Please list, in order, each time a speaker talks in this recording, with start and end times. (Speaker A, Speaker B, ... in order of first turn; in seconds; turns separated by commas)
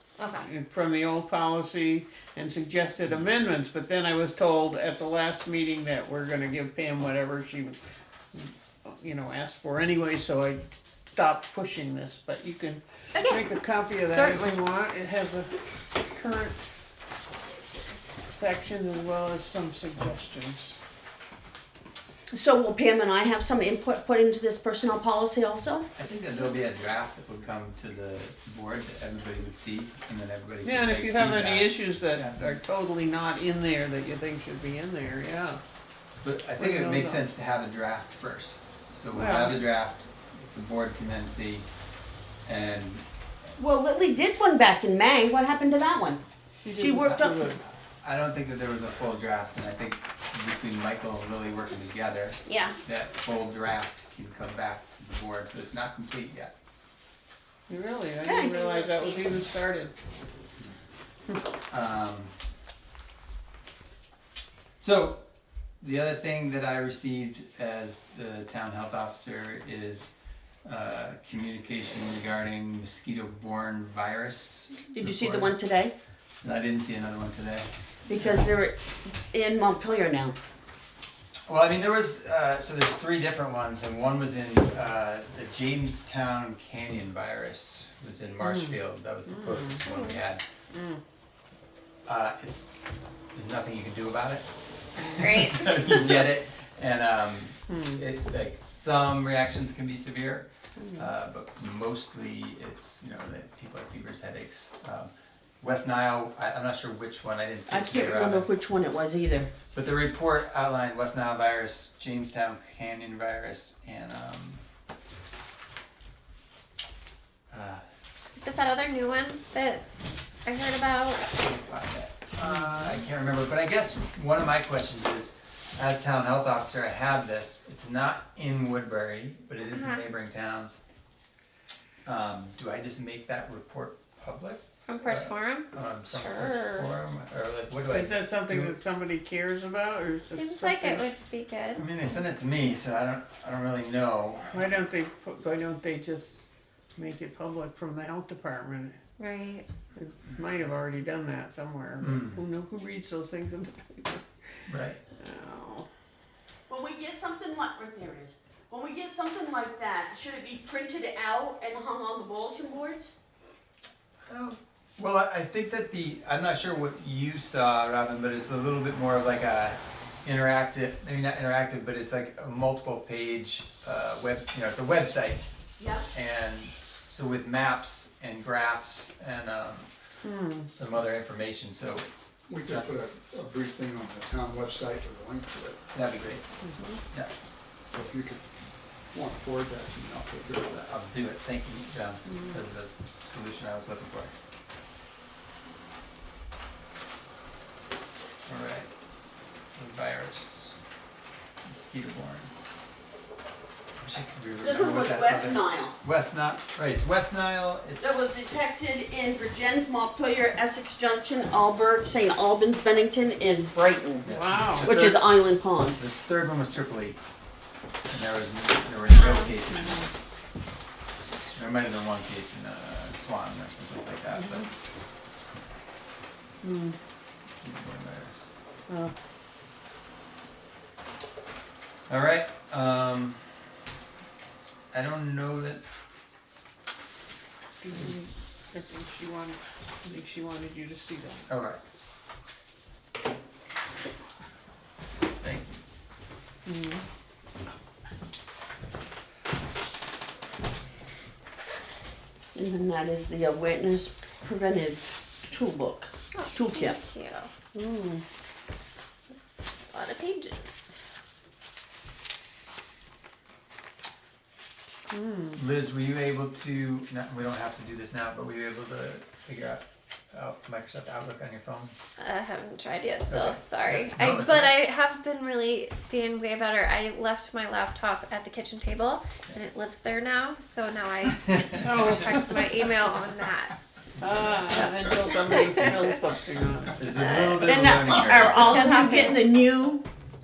Speaker A: 0.2-0.5, Speaker B: 0.4-7.8, Speaker B: 8.3-16.6, Speaker A: 13.2-13.4, Speaker A: 14.1-14.5, Speaker B: 18.3-20.8, Speaker C: 22.3-25.9, Speaker D: 25.9-32.4, Speaker B: 30.6-35.6, Speaker D: 36.2-41.7, Speaker B: 36.6-37.2, Speaker B: 39.1-39.6, Speaker D: 42.5-43.0, Speaker C: 43.6-46.2, Speaker B: 46.5-47.6, Speaker C: 46.8-47.4, Speaker D: 47.0-47.3, Speaker D: 48.0-56.5, Speaker A: 52.5-52.8, Speaker B: 57.7-59.9, Speaker A: 58.2-59.3, Speaker D: 61.7-62.3, Speaker D: 64.8-65.2, Speaker D: 65.8-70.1, Speaker D: 70.7-75.6, Speaker C: 74.9-75.9, Speaker D: 76.4-78.5, Speaker C: 78.1-80.4, Speaker D: 81.5-90.4, Speaker B: 88.4-89.8, Speaker A: 89.8-90.2, Speaker B: 90.7-91.0, Speaker D: 92.1-92.8, Speaker D: 93.3-94.5, Speaker D: 95.0-108.5, Speaker A: 95.2-95.8, Speaker B: 97.7-98.0, Speaker B: 100.8-101.1, Speaker C: 107.7-109.5, Speaker D: 109.7-114.6, Speaker D: 117.5-117.8, Speaker A: 118.3-119.9, Speaker A: 120.4-121.2, Speaker D: 121.2-130.8, Speaker A: 129.7-130.0, Speaker D: 132.1-138.7, Speaker A: 134.9-136.9, Speaker B: 137.9-141.1, Speaker A: 140.3-141.8, Speaker D: 141.8-144.7, Speaker B: 144.5-149.0, Speaker A: 149.2-149.7, Speaker B: 149.9-154.2, Speaker D: 152.0-152.4, Speaker D: 154.7-155.0, Speaker B: 155.2-155.9, Speaker C: 156.7-163.1, Speaker D: 164.3-175.4, Speaker C: 175.8-176.1, Speaker D: 176.1-179.9, Speaker B: 180.2-180.7, Speaker D: 180.7-182.1, Speaker E: 182.5-185.8, Speaker D: 182.7-182.9, Speaker D: 185.9-186.4, Speaker B: 186.6-187.0, Speaker E: 187.9-188.4, Speaker E: 189.1-190.9, Speaker D: 190.8-194.3, Speaker B: 192.3-192.6, Speaker D: 198.5-198.9, Speaker D: 199.8-200.8, Speaker D: 201.7-202.5, Speaker D: 204.0-208.3, Speaker C: 204.6-206.0, Speaker C: 208.0-216.0, Speaker D: 214.2-215.4, Speaker B: 214.2-214.9, Speaker D: 216.0-217.2, Speaker D: 218.1-220.1, Speaker A: 219.1-219.5, Speaker B: 219.7-220.1, Speaker D: 221.6-224.7, Speaker B: 226.6-227.0, Speaker D: 227.6-228.4, Speaker B: 228.9-229.1, Speaker D: 232.1-233.4, Speaker D: 234.9-235.8, Speaker B: 237.8-241.5, Speaker D: 241.5-241.8, Speaker D: 245.4-245.8, Speaker B: 246.7-247.0, Speaker C: 252.6-257.0, Speaker A: 256.3-257.5, Speaker B: 257.7-258.2, Speaker A: 259.3-260.9, Speaker B: 265.1-265.6, Speaker D: 265.6-271.9, Speaker A: 272.2-283.8, Speaker D: 273.3-274.8, Speaker B: 281.8-282.5, Speaker B: 284.2-287.0, Speaker A: 285.5-285.9, Speaker D: 287.0-288.9, Speaker A: 287.1-287.7, Speaker C: 287.6-290.1, Speaker A: 288.6-289.5